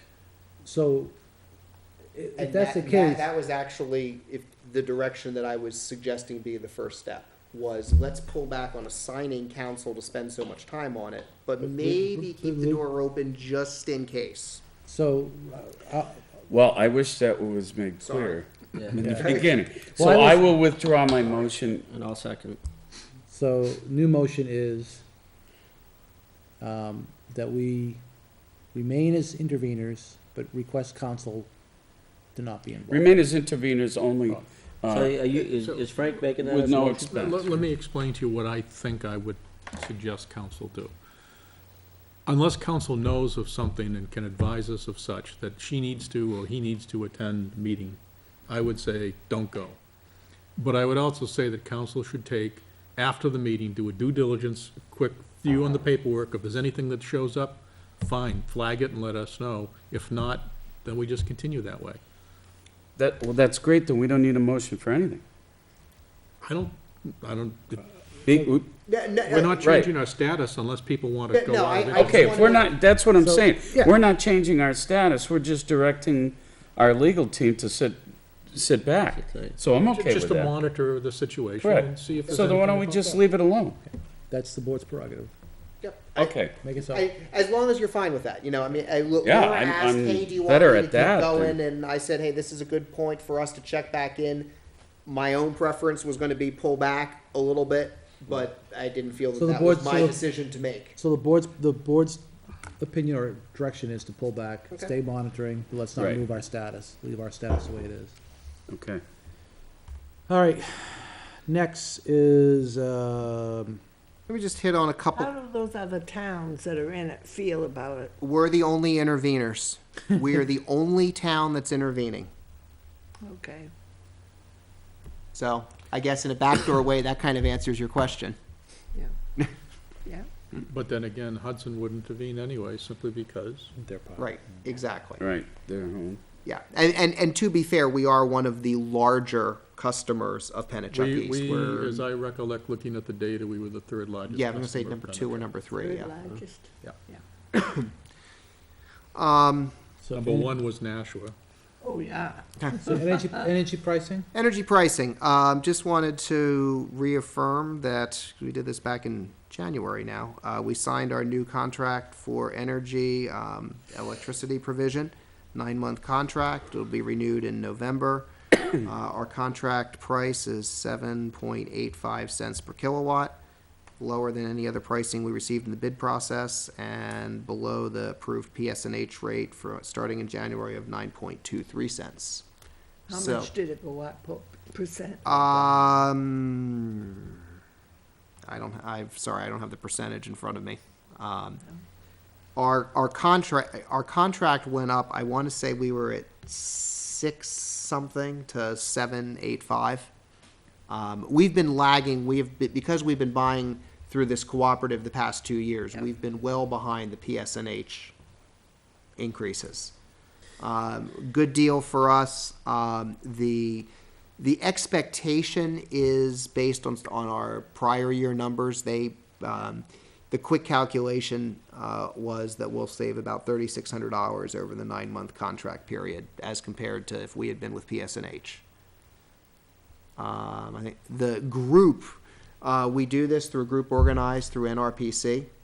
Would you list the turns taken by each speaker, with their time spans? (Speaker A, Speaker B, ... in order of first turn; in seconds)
Speaker A: 0.6-1.1, 2.1-3.3, 11.6-12.8, 14.8-16.2, 19.0-20.5, 23.3-25.0, 26.6-28.0, 28.7-31.5, 32.4-33.1, 68.3-68.6, 73.2-73.6, 84.3-85.3, 86.6-87.0, 99.3-100.2, 101.0-102.2, 102.8-108.2, 110.3-113.8, 133.8-134.6, 150.0-150.6, 152.8-154.3
Speaker B: 2.4-14.6, 18.0-18.4, 19.1-19.5, 68.9-69.7, 71.3-72.7, 85.8-94.5, 95.1-101.0, 114.3-115.3, 118.2-122.3, 125.3-128.4, 134.2-135.2, 136.4-142.0, 144.3-146.2, 147.5-147.9, 149.2-149.8, 154.3-168.3, 168.8-173.4, 174.0-182.5, 183.1-183.5, 185.2-187.3, 188.5-191.6, 192.6-200.1, 200.9-208.1, 209.2-209.9, 210.6-228.6, 230.2-235.5
Speaker C: 16.5-21.8, 32.9-35.2, 36.4-37.5, 63.0-65.2, 68.3-68.7, 69.6-69.9, 71.9-78.0, 78.5-80.5, 81.6-83.8, 86.2-86.6, 89.2-91.6, 106.0-106.2, 108.7-109.0, 135.2-136.2
Speaker D: 18.8-19.0, 21.9-22.6, 34.9-37.4, 79.2-79.5
Speaker E: 35.5-35.9, 36.8-40.9, 42.3-49.8, 50.6-62.0, 66.4-67.9, 69.3-72.6, 80.0-83.2, 130.6-133.7, 140.9-145.5, 150.1-151.3
Speaker F: 115.2-118.1, 123.2-123.7, 145.7-147.2, 151.8-153.5, 183.1-185.8